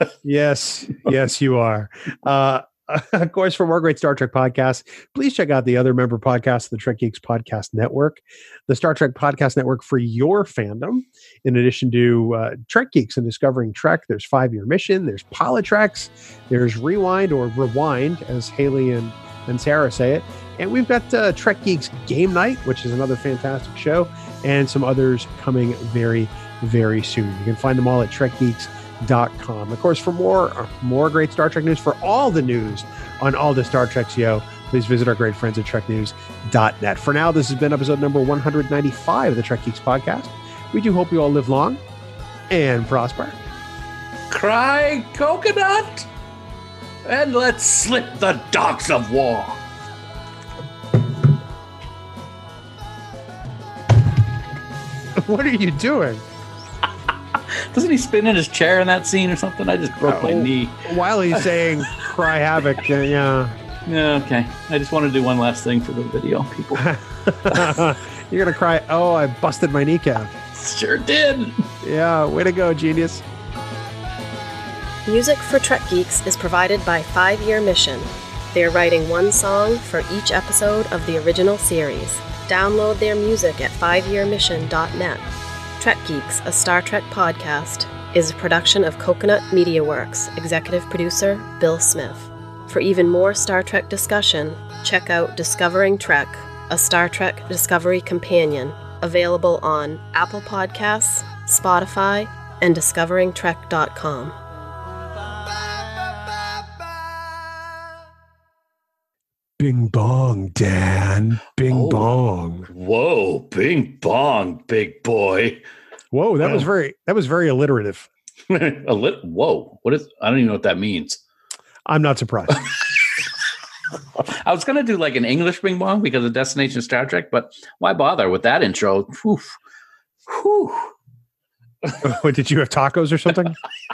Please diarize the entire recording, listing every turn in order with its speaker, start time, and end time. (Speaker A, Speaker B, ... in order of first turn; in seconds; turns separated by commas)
Speaker A: 0.2-41.8, Speaker A: 42.5-43.4, Speaker B: 44.3-46.1, Speaker B: 47.0-49.6, Speaker A: 55.2-56.2, Speaker B: 57.7-61.5, Speaker A: 60.0-63.5, Speaker B: 63.9-66.8, Speaker A: 66.8-70.3, Speaker B: 70.5-71.6, Speaker A: 71.8-73.2, Speaker C: 75.0-85.2, Speaker C: 85.8-104.3, Speaker A: 109.6-112.7, Speaker B: 111.7-112.1, Speaker B: 112.7-115.6, Speaker A: 116.1-118.1, Speaker B: 118.5-121.2, Speaker A: 121.8-122.6, Speaker B: 124.2-129.6, Speaker B: 130.3-130.9, Speaker A: 132.0-133.6